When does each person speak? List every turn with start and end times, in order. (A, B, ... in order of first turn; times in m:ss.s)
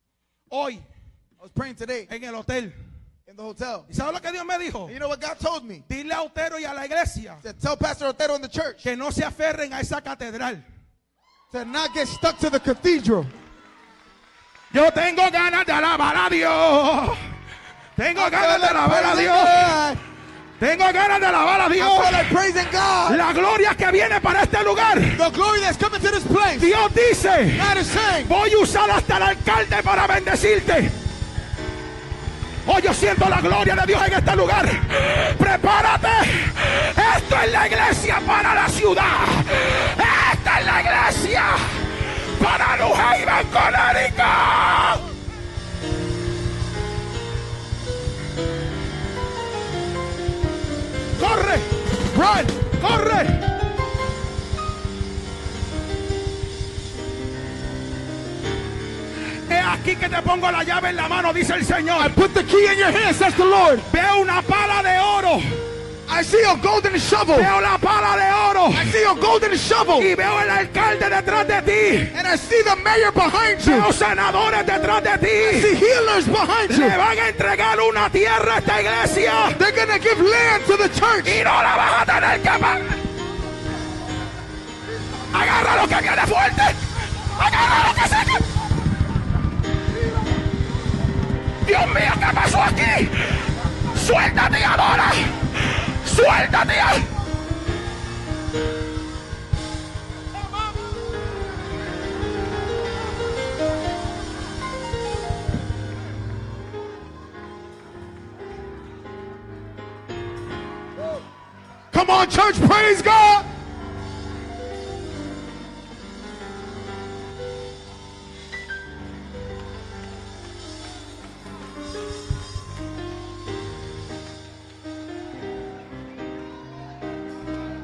0:00.5-0:00.8 A
0:01.4-0:02.1 B
0:02.1-0:02.8 A
0:03.2-0:03.9 B
0:03.9-0:04.9 A
0:04.9-0:05.8 B
0:05.9-0:07.4 A
0:07.4-0:08.8 B
0:08.8-0:10.6 A
0:11.5-0:13.3 B
0:14.7-0:17.2 A
0:18.0-0:19.8 A
0:18.1-0:20.0 B
0:20.6-0:22.3 A
0:21.7-0:23.2 B
0:23.0-0:25.2 A
0:25.1-0:26.7 B
0:26.6-0:30.9 A
0:27.5-0:28.3 B
0:32.6-0:45.0 A
0:51.2-0:51.7 A
0:52.1-0:52.6 B
0:52.7-0:53.4 A
0:59.5-1:02.1 A
1:02.0-1:03.9 B
1:03.9-1:05.5 A
1:06.1-1:07.5 B
1:07.3-1:08.9 A
1:08.7-1:10.1 B
1:10.0-1:12.1 A
1:12.1-1:13.9 B
1:13.6-1:15.7 A
1:15.4-1:17.0 B
1:16.7-1:19.6 A
1:19.5-1:21.4 B
1:21.2-1:23.0 A
1:25.3-1:28.5 A
1:31.6-1:37.1 A
1:51.9-1:53.4 B